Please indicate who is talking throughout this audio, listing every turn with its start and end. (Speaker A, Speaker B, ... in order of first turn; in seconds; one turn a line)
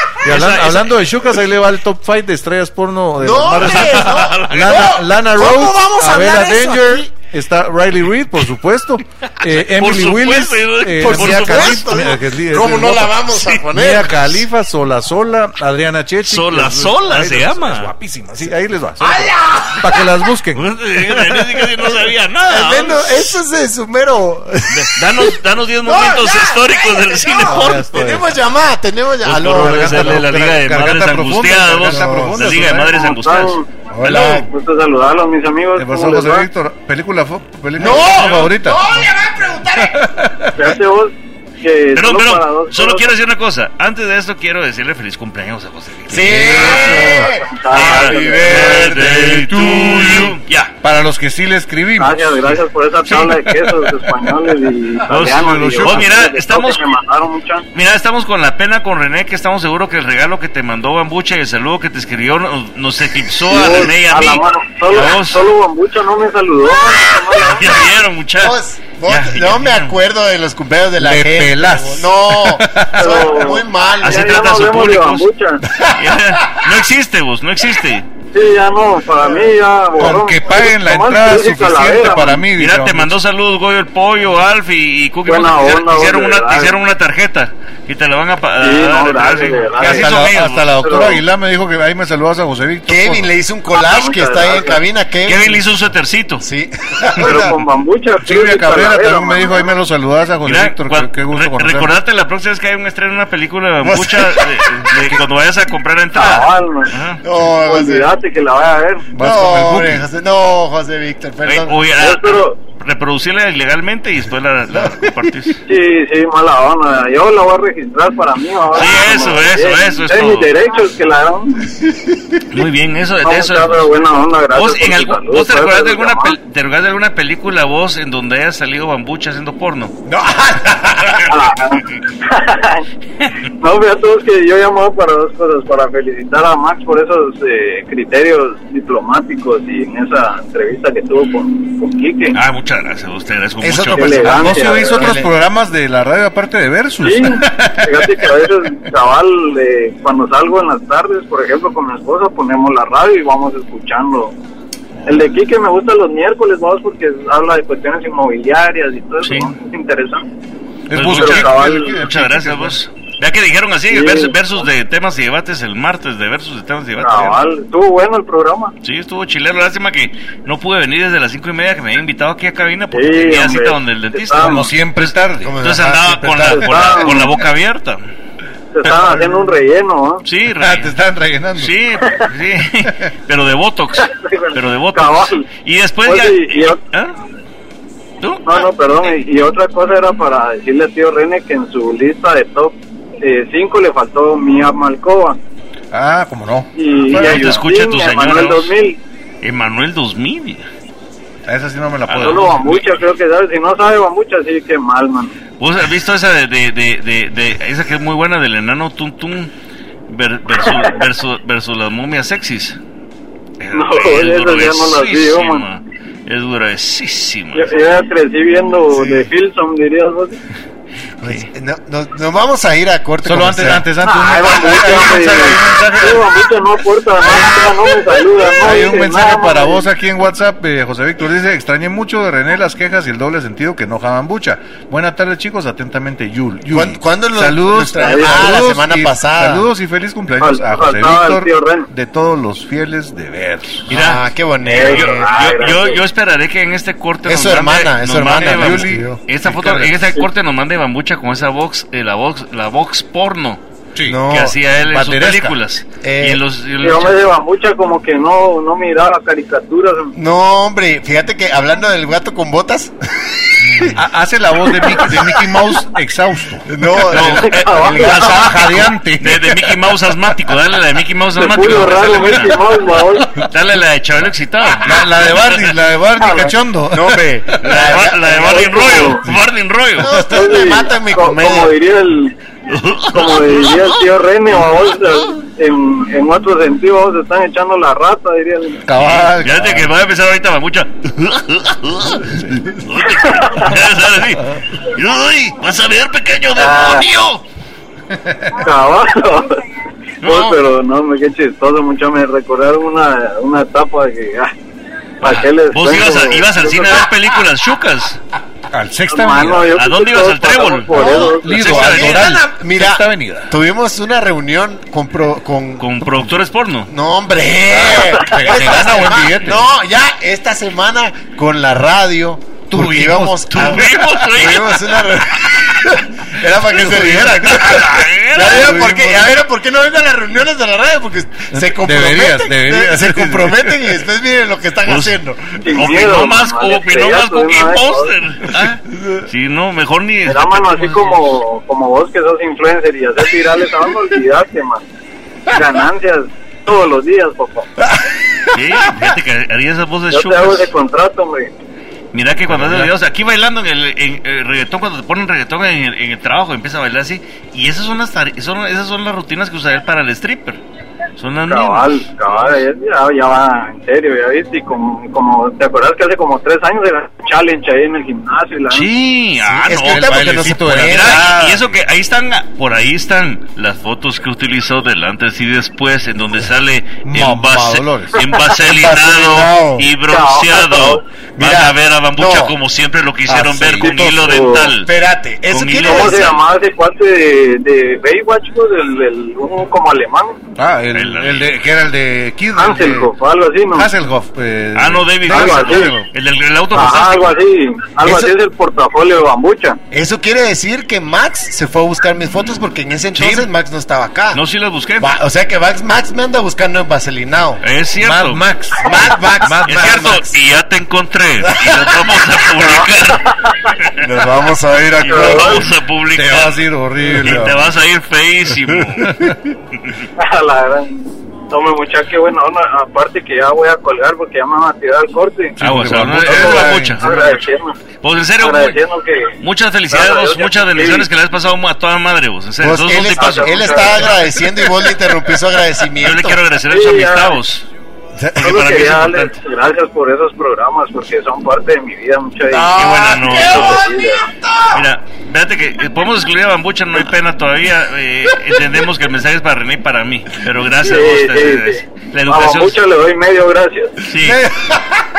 Speaker A: 0.2-21.4
Speaker B: 0.2-1.0
Speaker C: 3.2-7.1
Speaker B: 3.6-4.9
Speaker B: 9.4-11.9
Speaker C: 11.0-14.3
Speaker B: 13.3-13.6
Speaker B: 16.2-17.9
Speaker C: 19.0-20.1
Speaker B: 20.5-23.3
Speaker C: 22.5-25.3
Speaker B: 24.7-28.0
Speaker C: 25.8-30.2
Speaker A: 27.4-28.3
Speaker B: 29.2-33.6
Speaker A: 29.4-33.0
Speaker C: 31.8-32.4
Speaker D: 32.9-36.4
Speaker C: 33.9-34.5
Speaker A: 34.0-34.3
Speaker A: 35.7-39.0
Speaker C: 37.8-40.0
Speaker B: 38.0-38.5
Speaker A: 39.7-40.8
Speaker D: 40.6-43.0
Speaker B: 41.9-50.7
Speaker C: 46.1-49.4
Speaker A: 46.2-47.2
Speaker D: 47.3-48.6
Speaker A: 48.5-54.3
Speaker D: 52.0-57.6
Speaker B: 55.1-56.8
Speaker A: 55.1-56.1
Speaker B: 57.7-65.5
Speaker D: 63.5-67.8
Speaker B: 67.3-70.0
Speaker C: 68.4-74.4
Speaker A: 71.0-73.3
Speaker D: 73.0-75.6
Speaker B: 74.0-75.3
Speaker C: 75.7-76.0
Speaker B: 75.9-78.1
Speaker D: 78.3-82.4
Speaker A: 79.9-83.2
Speaker B: 82.5-90.8
Speaker D: 85.3-86.7
Speaker D: 88.6-90.1
Speaker A: 89.8-93.3
Speaker D: 90.8-91.2
Speaker C: 92.9-95.6
Speaker D: 93.7-94.8
Speaker B: 95.2-96.4
Speaker C: 96.4-97.5
Speaker A: 97.1-97.6
Speaker D: 97.2-99.7
Speaker A: 98.2-102.0
Speaker B: 100.4-107.2
Speaker C: 103.8-105.1
Speaker D: 106.2-106.9
Speaker C: 107.2-108.1
Speaker D: 107.7-109.0
Speaker A: 109.1-110.1
Speaker C: 109.1-111.8
Speaker B: 111.4-115.6
Speaker D: 112.0-112.5
Speaker D: 115.7-121.6
Speaker B: 118.7-120.5
Speaker B: 122.5-123.9
Speaker D: 123.2-126.3
Speaker B: 124.5-129.9
Speaker C: 130.1-131.2
Speaker D: 131.3-132.8
Speaker D: 133.6-142.3
Speaker B: 142.3-144.5
Speaker C: 143.6-145.3
Speaker D: 143.9-145.0
Speaker A: 144.2-148.5
Speaker D: 147.0-154.3
Speaker A: 155.0-155.3
Speaker D: 155.1-160.2
Speaker B: 159.2-159.5
Speaker A: 160.9-162.8
Speaker B: 160.9-167.4
Speaker D: 161.1-161.9
Speaker D: 163.9-164.3
Speaker D: 167.0-168.7
Speaker B: 168.8-178.0
Speaker D: 172.9-174.6
Speaker A: 174.4-175.6
Speaker C: 175.4-177.1
Speaker D: 176.7-177.2
Speaker D: 178.7-180.2
Speaker A: 178.8-179.5
Speaker B: 180.2-180.9
Speaker A: 180.5-181.8
Speaker B: 181.6-187.2
Speaker D: 184.3-185.4
Speaker D: 186.1-186.8
Speaker B: 188.2-188.7
Speaker D: 188.5-195.4
Speaker A: 195.9-197.6
Speaker D: 196.8-199.0
Speaker B: 197.1-198.7
Speaker B: 199.4-200.7
Speaker A: 201.4-202.8
Speaker B: 202.1-203.0
Speaker D: 202.2-205.3
Speaker B: 205.6-209.5
Speaker B: 210.1-212.8
Speaker B: 213.6-217.8
Speaker D: 213.7-215.6
Speaker D: 217.6-220.3
Speaker C: 219.0-219.3
Speaker C: 221.2-223.9
Speaker A: 223.2-226.3
Speaker D: 224.0-229.8
Speaker A: 227.2-227.7
Speaker A: 228.5-243.9
Speaker C: 236.7-239.7
Speaker D: 238.0-238.5
Speaker D: 240.4-241.9
Speaker C: 243.9-245.4
Speaker B: 243.9-253.6
Speaker D: 244.7-246.0
Speaker C: 247.2-249.2
Speaker A: 248.3-250.0
Speaker A: 253.9-254.2
Speaker C: 254.1-254.5
Speaker B: 254.2-257.2
Speaker A: 254.8-255.6
Speaker C: 256.0-256.4
Speaker D: 256.8-260.1
Speaker C: 260.1-264.0
Speaker A: 263.8-266.7
Speaker C: 266.6-268.5
Speaker B: 267.1-272.7
Speaker D: 267.3-268.4
Speaker A: 267.9-269.9
Speaker D: 271.4-273.3
Speaker B: 273.4-275.6
Speaker A: 274.8-277.6
Speaker D: 276.2-276.5
Speaker C: 276.9-279.2
Speaker B: 277.6-280.1
Speaker D: 278.4-279.2
Speaker C: 280.0-281.7
Speaker D: 280.2-282.3
Speaker B: 282.7-283.8
Speaker D: 283.1-288.8
Speaker A: 288.8-289.9
Speaker B: 288.9-297.4
Speaker A: 292.2-292.8
Speaker D: 296.6-297.1
Speaker A: 298.1-298.5
Speaker D: 298.6-299.6
Speaker B: 300.2-300.6
Speaker D: 300.2-304.5
Speaker D: 305.2-307.0
Speaker B: 305.2-308.2
Speaker A: 308.7-309.8
Speaker D: 309.1-311.4
Speaker B: 309.7-312.3
Speaker C: 310.9-315.9
Speaker A: 310.9-313.5
Speaker B: 315.8-316.9
Speaker C: 316.9-335.8
Speaker A: 317.7-319.7
Speaker B: 318.5-319.5
Speaker A: 322.7-324.2
Speaker B: 323.5-325.0
Speaker A: 325.5-326.0
Speaker A: 326.5-329.4
Speaker B: 327.7-328.8
Speaker A: 331.5-334.0
Speaker B: 334.9-335.2
Speaker D: 335.6-338.1
Speaker B: 335.7-341.4
Speaker C: 339.0-339.2
Speaker D: 340.3-344.8
Speaker D: 345.5-347.7
Speaker C: 347.8-348.6
Speaker B: 348.5-350.7
Speaker D: 350.1-351.5
Speaker B: 352.1-360.6
Speaker A: 352.5-352.9
Speaker B: 361.2-362.6
Speaker D: 361.5-368.9
Speaker B: 368.7-384.9
Speaker A: 369.6-371.7
Speaker C: 369.6-371.3
Speaker A: 377.0-378.2
Speaker C: 378.6-379.9
Speaker D: 380.1-381.0
Speaker C: 381.4-382.5
Speaker A: 383.3-384.6
Speaker D: 384.2-384.7
Speaker C: 384.8-386.4
Speaker B: 385.5-386.4
Speaker D: 385.9-390.4
Speaker A: 390.6-393.1
Speaker B: 390.9-391.5
Speaker D: 392.6-393.9
Speaker A: 393.7-396.1
Speaker B: 394.7-397.4
Speaker D: 395.3-395.9
Speaker D: 396.7-399.8
Speaker C: 398.0-398.3
Speaker C: 399.9-404.4
Speaker B: 403.1-403.5
Speaker B: 404.3-405.1
Speaker C: 405.0-407.6
Speaker B: 407.6-408.4
Speaker A: 408.0-410.2
Speaker C: 408.8-410.3
Speaker B: 409.6-413.3
Speaker C: 411.5-411.9
Speaker D: 412.6-413.3
Speaker B: 413.8-414.0
Speaker C: 414.0-415.7
Speaker B: 415.0-419.1
Speaker D: 415.0-415.6
Speaker A: 416.1-417.7
Speaker A: 419.0-419.4
Speaker D: 420.2-425.5
Speaker A: 425.6-427.0
Speaker B: 425.6-427.5
Speaker D: 426.2-427.8
Speaker B: 428.0-428.8
Speaker D: 428.4-429.3
Speaker B: 429.4-434.1
Speaker D: 429.9-431.1
Speaker C: 432.6-436.4
Speaker D: 433.2-434.1
Speaker B: 436.0-437.6
Speaker D: 436.7-437.4
Speaker B: 438.3-439.4
Speaker D: 438.4-442.8
Speaker C: 442.5-444.8
Speaker B: 442.7-443.8
Speaker D: 443.3-444.3
Speaker B: 444.7-452.8
Speaker D: 450.8-453.9
Speaker B: 454.0-454.4
Speaker C: 454.2-454.9